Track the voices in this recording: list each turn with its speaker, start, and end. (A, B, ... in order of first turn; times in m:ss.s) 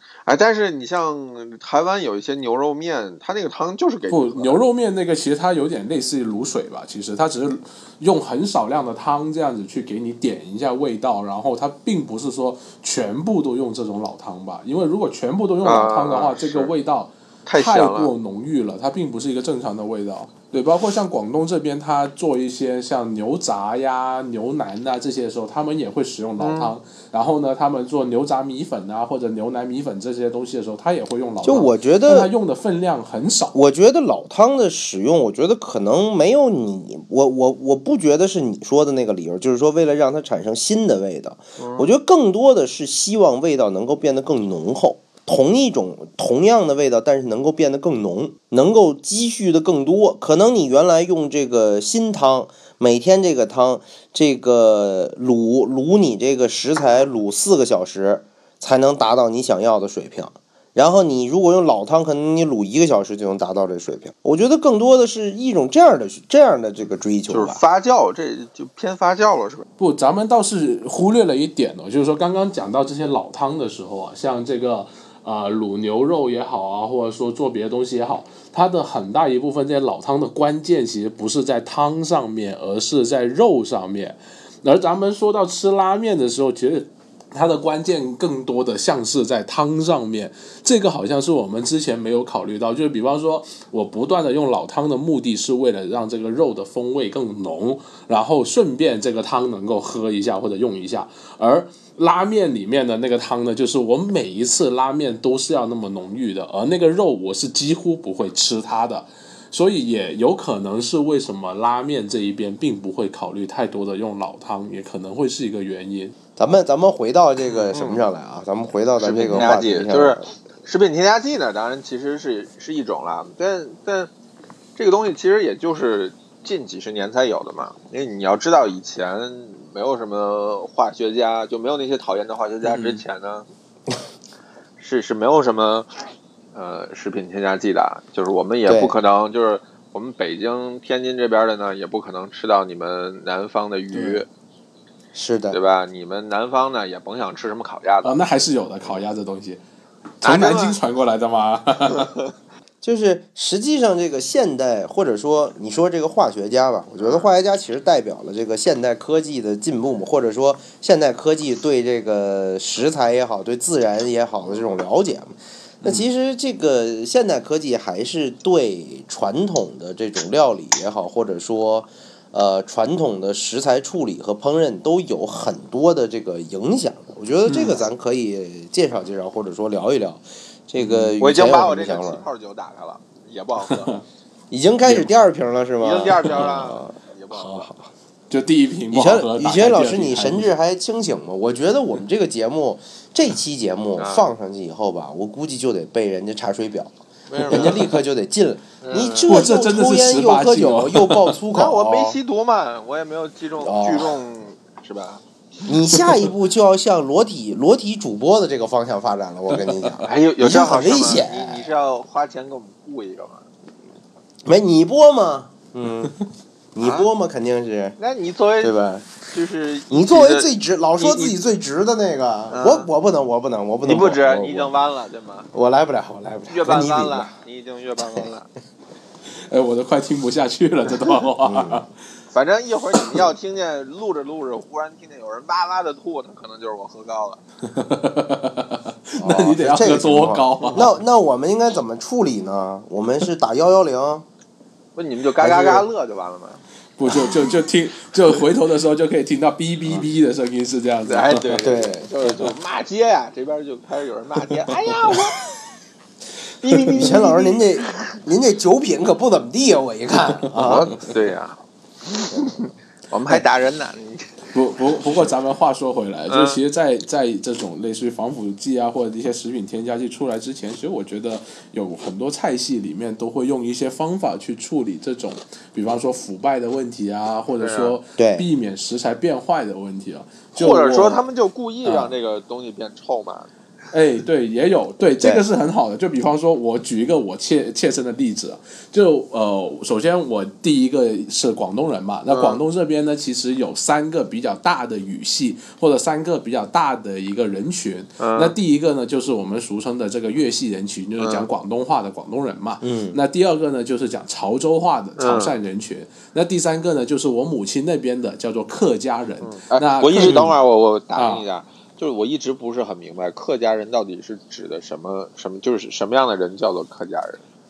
0:00.3-0:04.6 A
0:04.1-0:33.6 B
0:15.6-0:16.7 A
0:17.5-0:18.1 A
0:26.4-0:26.7 A
0:31.4-0:32.3 C
0:33.5-1:07.6 C
0:41.6-0:41.9 A
1:07.3-1:09.7 A
1:09.8-1:56.2 B
1:56.4-2:00.2 C
1:57.7-1:58.0 A
1:59.0-2:04.1 A
2:04.8-2:13.5 A
2:14.8-2:15.9 A
2:16.5-2:24.3 A
2:18.7-2:19.0 C
2:23.9-2:24.2 B
2:25.1-2:25.6 C
2:25.5-2:28.2 A
2:28.0-2:29.6 B
2:30.2-2:32.1 B
2:30.2-2:30.8 A
2:32.8-3:02.2 C
2:37.0-2:37.3 A
2:44.5-2:44.8 A
2:57.5-2:57.8 B
3:00.8-3:01.2 B
3:01.2-3:04.0 A
3:03.7-3:04.0 B
3:04.5-3:07.9 C
3:04.8-3:05.1 B
3:05.8-3:07.7 A
3:08.3-3:10.5 B
3:08.9-3:16.9 C
3:14.0-3:14.3 A
3:17.3-3:17.8 A
3:17.4-3:22.2 C
3:17.5-3:18.0 B
3:18.8-3:19.4 A
3:19.3-3:21.4 B
3:21.5-3:25.2 A
3:23.6-3:24.2 C
3:25.7-3:31.7 C
3:30.1-3:33.5 A
3:34.4-3:36.2 C
3:36.8-3:38.0 C
3:36.8-3:37.1 A
3:38.0-3:41.4 A
3:38.6-3:39.1 C
3:39.9-3:44.8 C
3:42.5-3:42.9 A
3:43.8-3:45.5 A
3:45.5-3:47.3 C
3:46.5-3:48.5 A
3:49.5-3:51.9 B
3:51.4-3:51.8 C
3:52.3-3:57.4 A
3:57.6-4:00.9 B
3:59.2-4:04.3 C
4:05.0-4:06.6 A
4:05.4-4:05.9 C
4:07.0-4:11.6 B
4:07.1-4:07.5 C
4:11.0-4:15.5 A
4:11.6-4:12.1 C
4:16.6-4:18.2 A
4:17.0-4:21.0 C
4:20.6-4:24.5 A
4:24.5-4:41.3 B
4:26.3-4:26.6 A
4:37.6-4:38.0 A
4:38.2-4:38.5 C
4:40.6-4:43.5 A
4:43.9-5:10.4 B
4:52.3-4:52.6 A
4:58.2-4:58.6 A
5:01.2-5:01.5 A
5:02.8-5:03.2 C
5:05.2-5:05.6 A
5:09.4-5:17.4 A
5:10.2-5:10.6 C
5:11.2-5:11.4 B